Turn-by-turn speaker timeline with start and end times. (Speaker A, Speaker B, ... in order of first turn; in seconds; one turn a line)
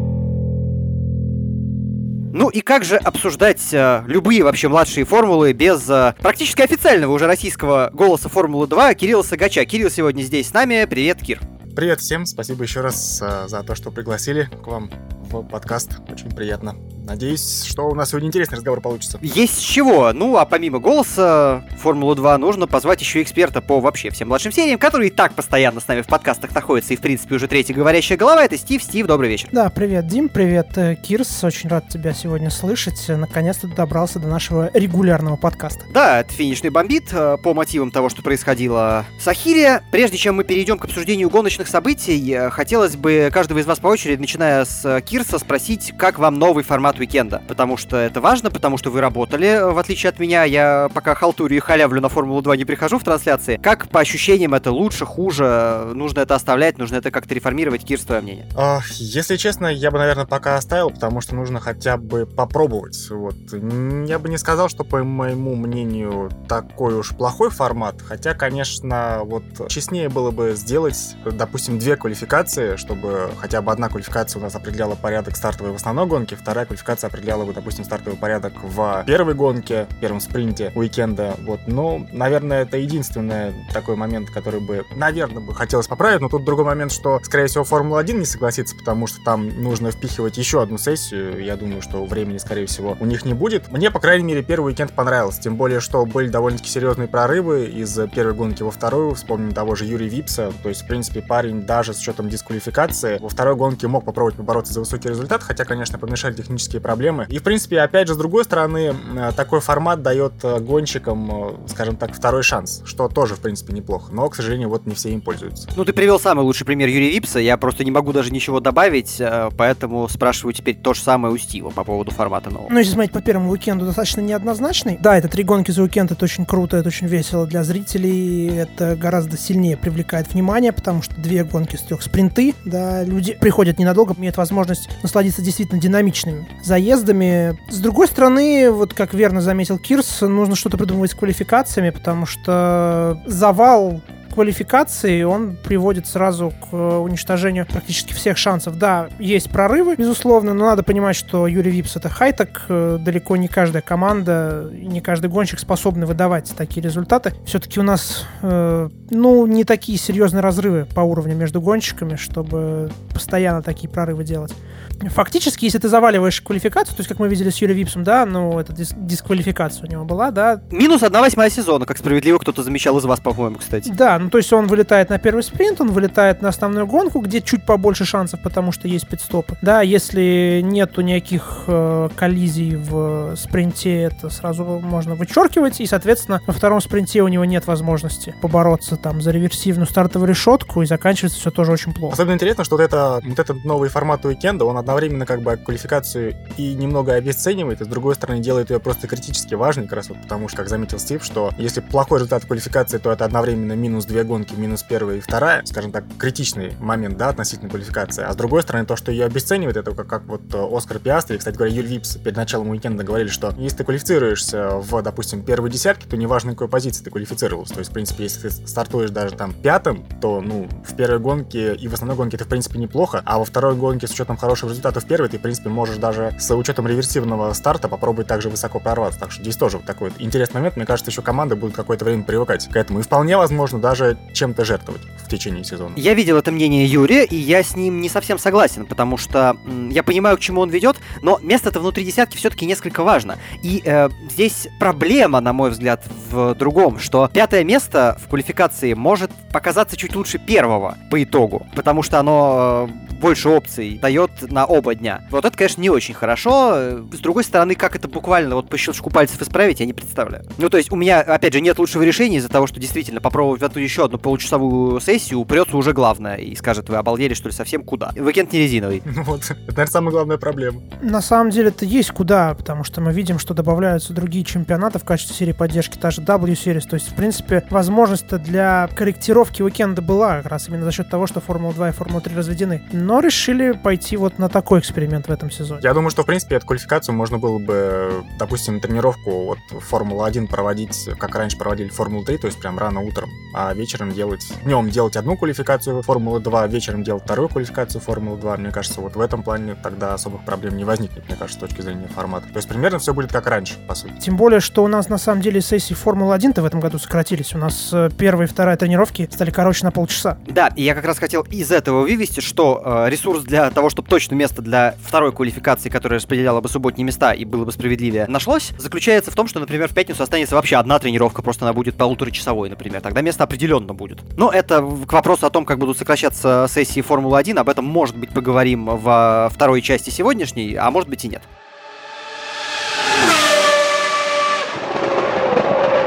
Speaker A: 2.3-11.4
Speaker B: 11.8-19.2
Speaker A: 19.2-29.5
Speaker C: 29.5-35.9
Speaker A: 35.9-58.5
Speaker B: 58.5-115.7
Speaker A: 115.7-122.7
Speaker C: 122.7-170.6
Speaker A: 170.7-173.9
Speaker C: 173.8-192.2
Speaker B: 192.1-236.0
Speaker A: 235.9-269.0
Speaker B: 269.0-270.8
Speaker C: 271.0-285.8
Speaker B: 285.8-304.1
Speaker C: 304.2-310.4
Speaker A: 310.5-331.5